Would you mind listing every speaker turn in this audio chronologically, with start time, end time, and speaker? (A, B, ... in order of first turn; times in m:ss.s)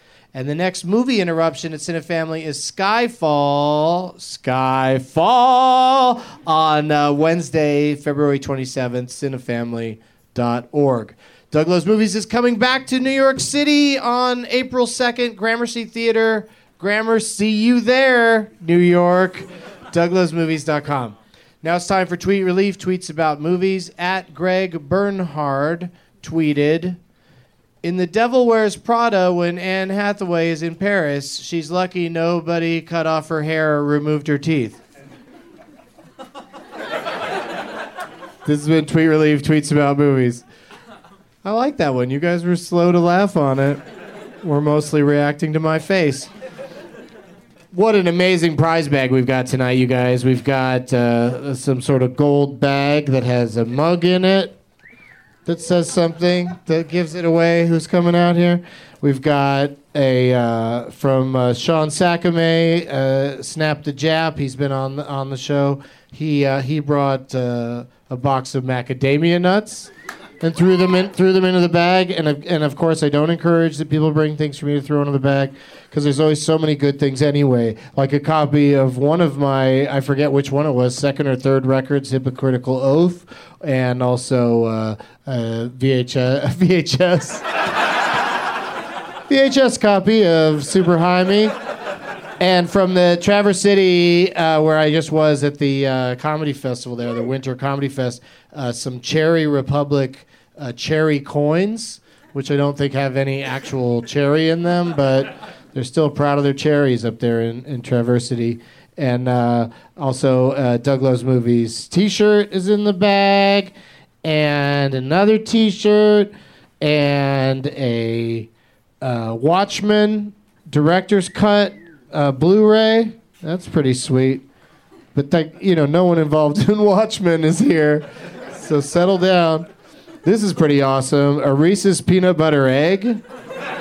0:00.3-0:27.0 A
0:27.8-0:34.8 A
0:38.4-0:40.4 A
0:41.4-0:43.8 A
0:44.4-0:46.3 A
0:47.7-0:54.5 A
0:55.4-1:27.4 A
1:29.3-1:31.5 A
1:32.4-1:58.5 A
1:59.0-2:04.4 A
2:05.1-2:09.7 A
2:10.2-2:13.2 A